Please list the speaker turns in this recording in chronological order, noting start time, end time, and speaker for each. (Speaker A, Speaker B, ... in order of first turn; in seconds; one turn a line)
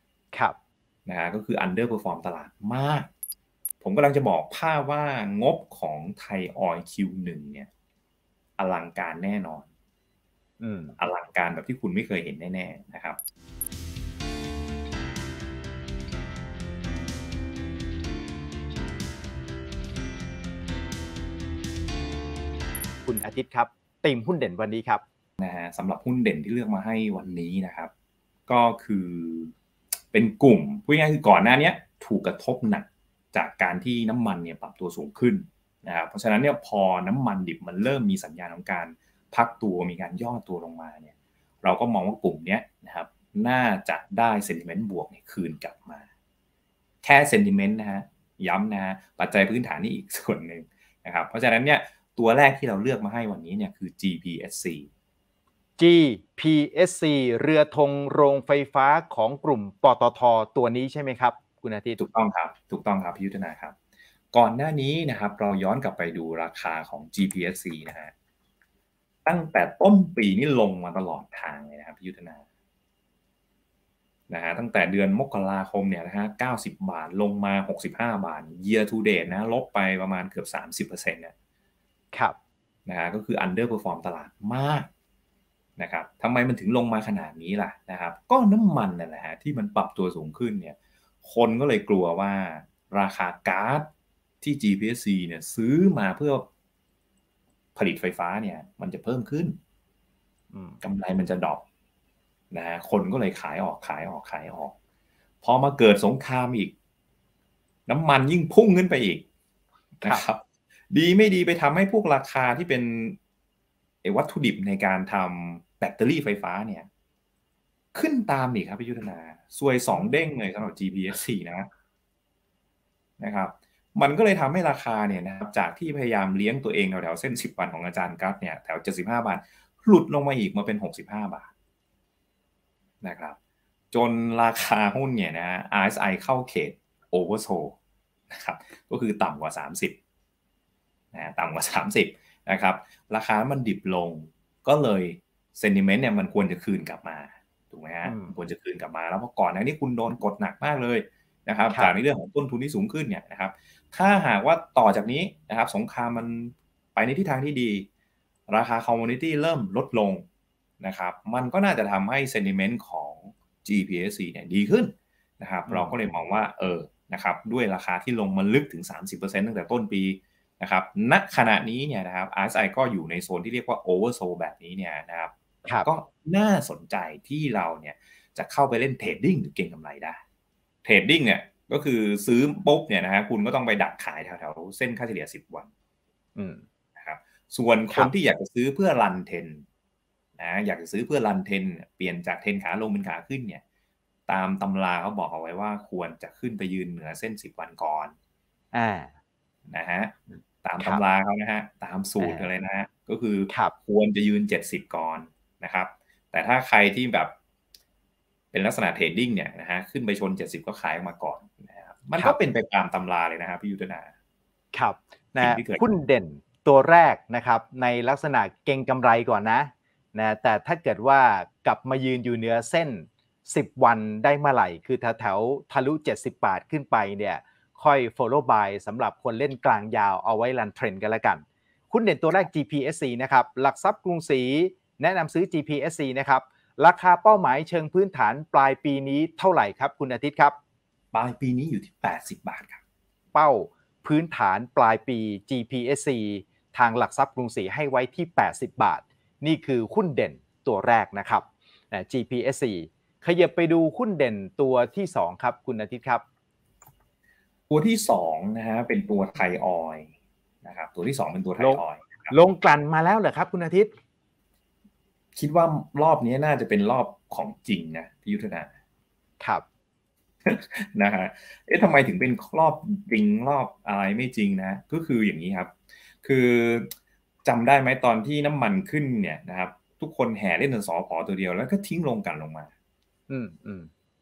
Speaker A: 1.1-3.1
Speaker A: 3.8-7.7
Speaker A: 8.6-9.7
Speaker B: 10.6-10.9
Speaker A: 11.0-13.2
Speaker B: 23.1-25.0
Speaker A: 25.4-27.9
Speaker A: 28.5-29.5
Speaker A: 30.1-46.1
Speaker A: 47.0-54.9
Speaker B: 55.8-62.0
Speaker A: 62.0-63.8
Speaker A: 64.3-68.1
Speaker A: 69.3-72.4
Speaker A: 74.3-81.3
Speaker A: 82.9-84.9
Speaker A: 85.8-93.9
Speaker A: 94.4-96.5
Speaker A: 97.8-99.6
Speaker B: 100.5-100.8
Speaker A: 100.8-101.6
Speaker A: 102.5-104.8
Speaker A: 105.4-106.7
Speaker A: 107.9-109.2
Speaker A: 110.0-113.2
Speaker A: 114.0-116.9
Speaker A: 117.9-121.7
Speaker A: 123.2-131.5
Speaker A: 133.0-133.4
Speaker A: 133.9-137.8
Speaker A: 138.3-140.0
Speaker A: 141.1-157.9
Speaker B: 148.1-148.3
Speaker A: 158.5-160.3
Speaker A: 160.8-175.3
Speaker B: 165.7-165.9
Speaker A: 175.8-180.2
Speaker A: 180.8-185.7
Speaker B: 186.4-186.6
Speaker A: 187.0-189.6
Speaker A: 190.4-193.6
Speaker A: 194.3-198.1
Speaker B: 198.7-199.1
Speaker A: 199.7-207.3
Speaker B: 202.2-202.5
Speaker A: 208.5-214.1
Speaker B: 214.7-240.6
Speaker A: 215.4-215.8
Speaker A: 241.1-242.8
Speaker B: 243.3-256.2
Speaker A: 257.7-260.1
Speaker A: 260.6-262.3
Speaker B: 261.6-263.9
Speaker A: 265.4-268.7
Speaker B: 269.4-269.6
Speaker A: 270.5-276.9
Speaker A: 277.4-282.7
Speaker B: 283.3-283.9